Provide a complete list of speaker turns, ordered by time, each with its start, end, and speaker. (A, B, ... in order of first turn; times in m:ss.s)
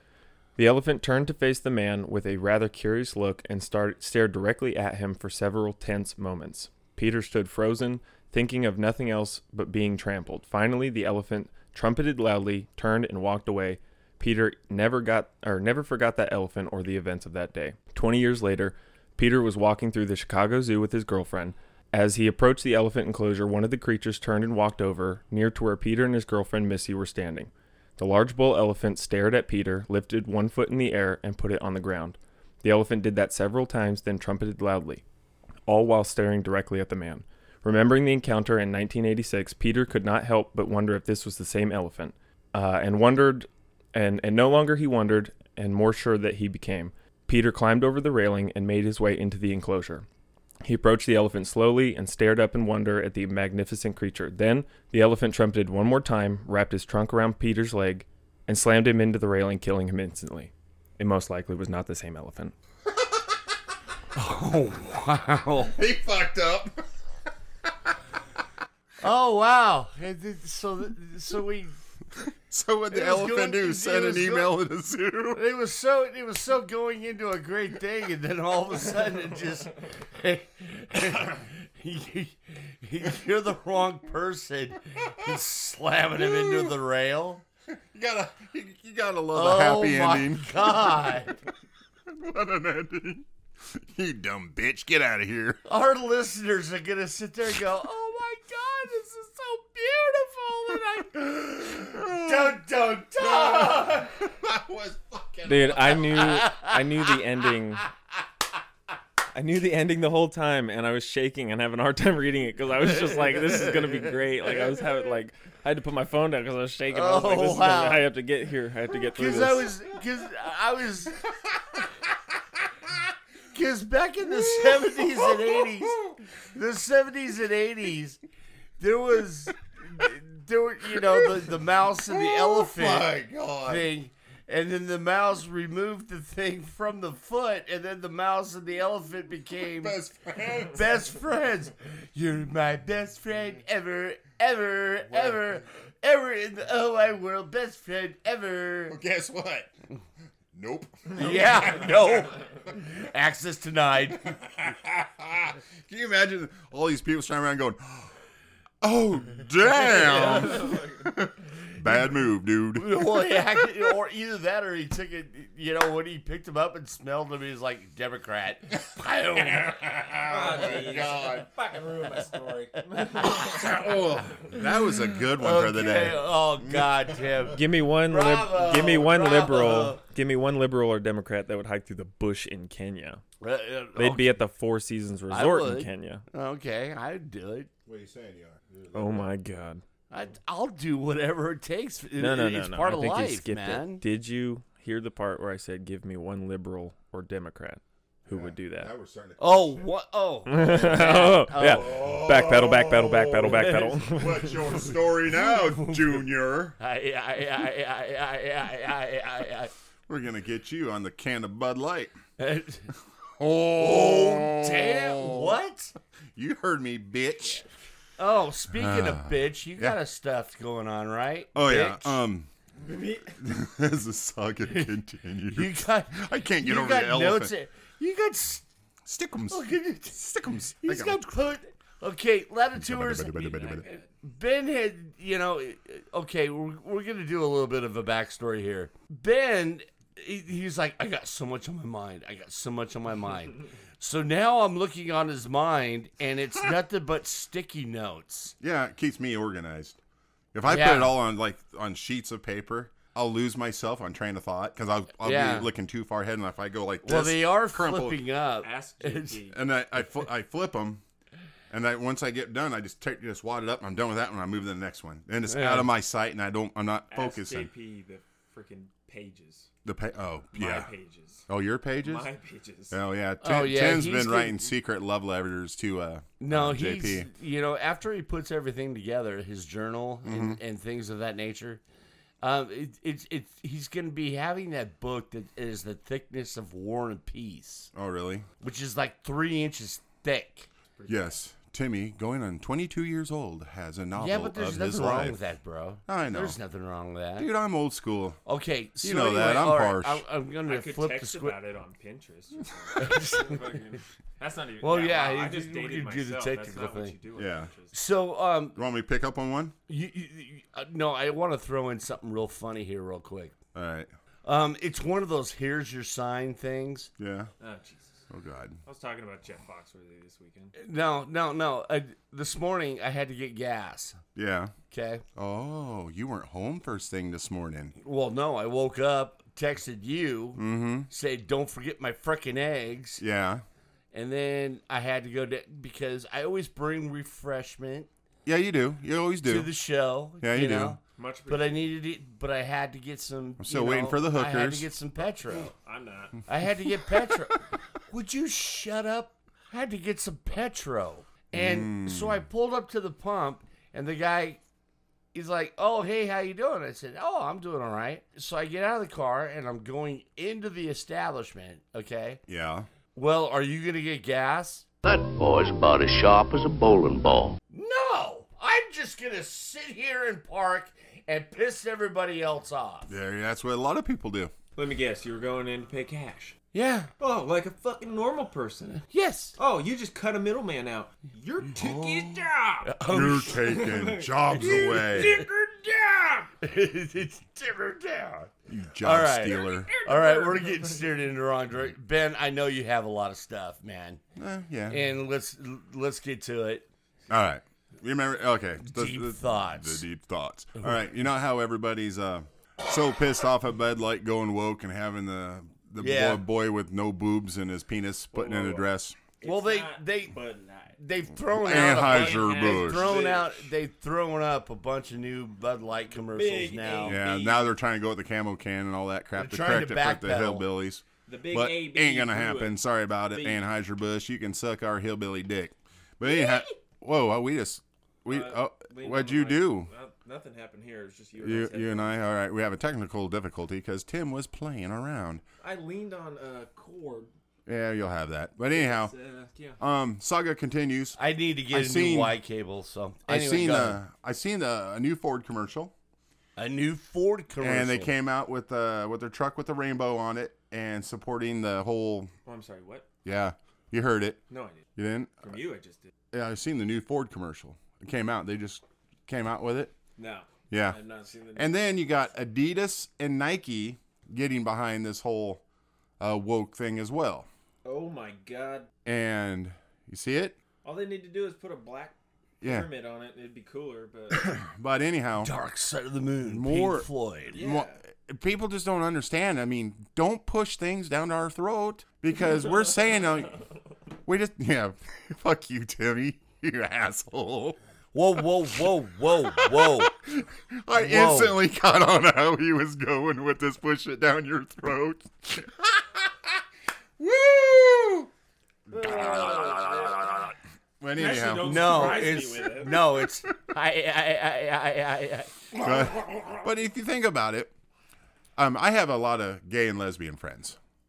0:00.6-0:35.0 A
0:35.6-0:50.0 A
0:50.6-1:02.5 A
1:04.1-1:05.8 B
1:05.7-1:06.8 C
1:09.0-1:11.8 B
1:12.2-1:15.4 C
1:12.9-1:14.6 B
1:15.3-1:27.4 B
1:26.1-1:26.8 C
1:27.9-1:31.2 C
1:29.3-1:31.3 B
1:32.1-1:35.6 C
1:35.7-1:44.1 B
1:41.3-1:42.6 C
1:43.2-1:46.2 C
1:45.4-1:47.9 A
1:46.1-1:47.2 B
1:49.3-1:59.7 A
1:53.1-1:54.0 B
1:56.9-1:58.0 B
1:59.1-2:01.2 B
2:03.5-2:06.0 B
2:04.3-2:06.2 C
2:06.5-2:08.2 B
2:08.8-2:13.1 B
2:11.0-2:11.5 C
2:12.1-2:13.9 C
2:13.6-2:20.0 B
2:19.6-2:20.8 C
2:20.6-2:29.0 B
2:28.9-2:29.8 C
2:30.5-2:32.5 C
2:31.2-2:34.4 B
2:34.1-2:38.1 C
2:38.8-2:43.7 C
2:39.9-2:40.6 B
2:40.0-2:41.1 D
2:42.7-2:49.8 B
2:49.3-2:51.5 C
2:50.2-2:54.5 D
2:53.1-2:57.5 C
2:55.4-3:00.0 B
2:57.5-3:03.2 A
3:03.4-3:04.4 B
3:04.0-3:06.2 A
3:05.3-3:07.7 B
3:07.8-3:09.3 C
3:08.9-3:09.8 A
3:10.1-3:14.0 B
3:12.2-3:18.9 A
3:18.3-3:19.9 C
3:19.4-3:22.0 B
3:20.5-3:24.5 A
3:21.6-3:26.8 C
3:23.5-3:24.5 B
3:25.4-3:26.2 B
3:26.8-3:29.7 B
3:30.1-3:32.1 C
3:32.4-3:32.9 B
3:33.4-3:35.6 C
3:33.8-3:35.9 B
3:36.3-3:37.6 C
3:37.4-3:37.7 D
3:38.2-3:42.2 B
3:38.7-3:40.0 C
3:41.5-3:42.5 C
3:42.8-3:43.4 D
3:43.4-3:47.5 C
3:45.5-3:48.6 B
3:49.0-3:51.2 C
3:49.5-3:50.2 B
3:50.8-4:08.5 B
3:52.7-3:53.9 C
3:53.4-3:54.1 D
4:08.6-4:10.0 C
4:10.5-4:18.2 C
4:10.6-4:11.2 B
4:15.2-4:15.7 B
4:17.0-4:19.4 B
4:18.6-4:19.6 D
4:19.5-4:21.0 C
4:21.7-4:27.7 C
4:25.5-4:25.9 B
4:27.1-4:29.7 D
4:29.8-4:30.9 C
4:30.5-4:31.4 D
4:31.5-4:32.3 C
4:32.0-4:33.0 D
4:32.9-4:37.3 C
4:33.4-4:34.7 B
4:36.4-4:41.8 B
4:40.2-4:40.6 C
4:42.4-4:47.9 B
4:47.9-4:48.5 C
4:48.6-4:50.7 B
4:51.0-4:51.3 D
4:51.1-4:55.4 C
4:54.2-4:57.5 B
4:56.1-4:56.6 C
4:57.4-4:58.4 C
4:58.4-5:01.6 B
4:59.0-5:00.2 C
5:00.6-5:07.9 D
5:03.0-5:03.6 B
5:04.8-5:07.2 B
5:07.3-5:07.7 C
5:07.9-5:08.8 B
5:08.7-5:09.7 C
5:09.9-5:13.5 B
5:13.7-5:14.1 C
5:14.4-5:17.1 B
5:17.2-5:17.5 C
5:17.6-5:18.2 D
5:18.3-5:18.8 C
5:18.8-5:20.7 D
5:20.8-5:24.2 B
5:24.3-5:24.7 C
5:24.9-5:25.2 B
5:25.4-5:27.9 C
5:28.0-5:33.2 B
5:30.6-5:31.1 C
5:33.2-5:33.6 C
5:34.1-5:38.1 B
5:38.4-5:39.7 C
5:39.4-5:45.7 B
5:40.4-5:41.0 C
5:41.2-5:41.9 D
5:43.6-5:44.9 C
5:45.7-5:46.4 D
5:46.5-5:54.6 B
5:51.5-5:52.4 C
5:55.3-6:02.4 B
6:02.5-6:02.9 C
6:03.1-6:04.8 B
6:05.0-6:07.6 E
6:07.7-6:13.1 B
6:13.1-6:14.5 C
6:14.8-6:16.6 D
6:16.7-6:17.1 B
6:17.2-6:22.9 D
6:19.1-6:19.6 B
6:22.8-6:23.9 B
6:23.1-6:25.4 C
6:23.6-6:26.5 D
6:24.6-6:25.4 B
6:26.6-6:34.2 B
6:28.7-6:29.9 C
6:29.9-6:31.0 D
6:34.4-6:35.0 C
6:34.9-6:36.8 B
6:37.3-6:49.2 C
6:38.8-6:40.0 B
6:46.0-6:46.4 B
6:48.3-6:51.0 D
6:49.4-6:50.3 B
6:51.0-6:57.2 B
6:51.5-6:53.2 C
6:51.6-6:53.7 D
6:56.2-6:57.8 D
6:57.0-7:09.9 C
6:59.3-7:00.7 B
7:01.2-7:02.8 D
7:03.3-7:03.6 D
7:08.3-7:12.1 D
7:11.4-7:15.4 C
7:15.6-7:17.3 D
7:17.6-7:19.1 C
7:18.7-7:19.8 D
7:19.8-7:21.2 C
7:21.2-7:24.0 B
7:21.7-7:22.4 C
7:23.3-7:25.9 C
7:26.6-7:28.1 B
7:27.6-7:32.3 C
7:32.4-7:33.0 D
7:33.2-7:34.4 C
7:34.5-7:34.8 D
7:35.0-7:35.6 C
7:35.4-7:36.1 D
7:36.3-7:39.9 C
7:40.2-7:42.0 D
7:40.7-7:41.0 C
7:41.5-7:45.6 C
7:46.2-7:47.5 C
7:47.8-7:48.9 D
7:49.0-7:50.6 C
7:50.8-7:54.6 D
7:52.6-7:52.9 C
7:54.3-7:55.5 C
7:55.4-7:57.6 B
7:56.4-8:03.6 C
7:57.5-7:58.0 D
8:04.2-8:07.8 C
8:08.1-8:10.1 B
8:09.6-8:16.5 C
8:10.9-8:11.6 B
8:17.2-8:18.3 C
8:18.9-8:20.5 D
8:19.0-8:20.1 C
8:21.0-8:23.2 C
8:21.1-8:23.0 D
8:21.6-8:26.0 B
8:25.8-8:27.7 C
8:28.6-8:30.8 C